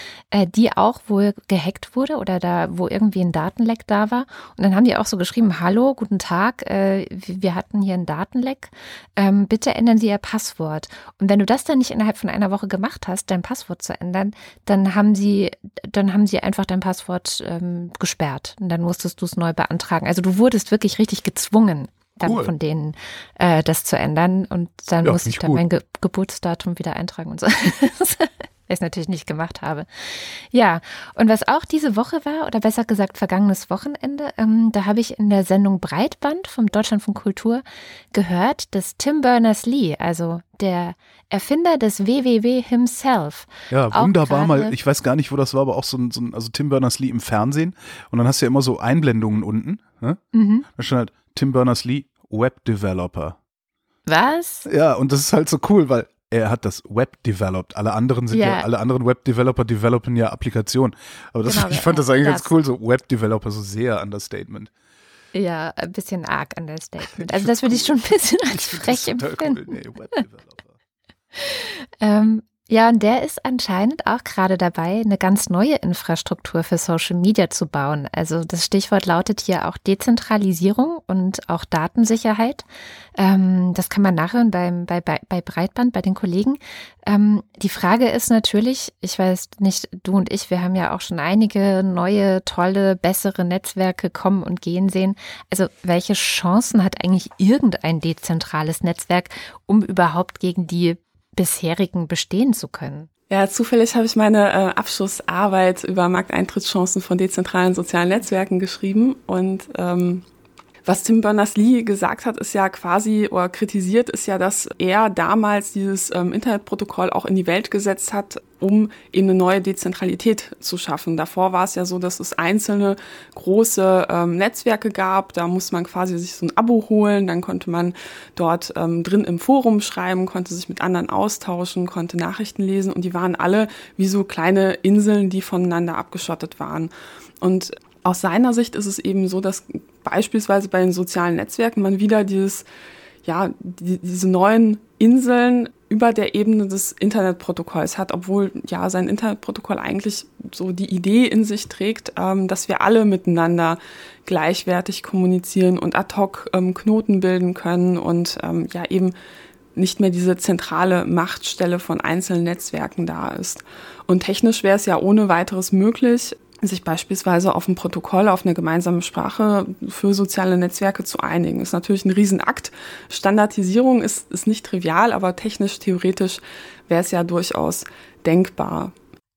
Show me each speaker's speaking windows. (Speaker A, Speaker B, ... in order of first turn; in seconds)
Speaker A: 0.3-44.8, 50.3-50.7, 54.0-54.7, 58.3-58.7, 61.4-62.5, 65.3-69.7, 71.4-103.1
Speaker B: 22.2-22.5, 25.0-25.6, 43.7-50.2, 50.7-53.4, 54.6-64.7, 67.2-70.7
Speaker C: 103.3-110.2, 110.8-142.6, 143.2-159.1, 159.7-178.9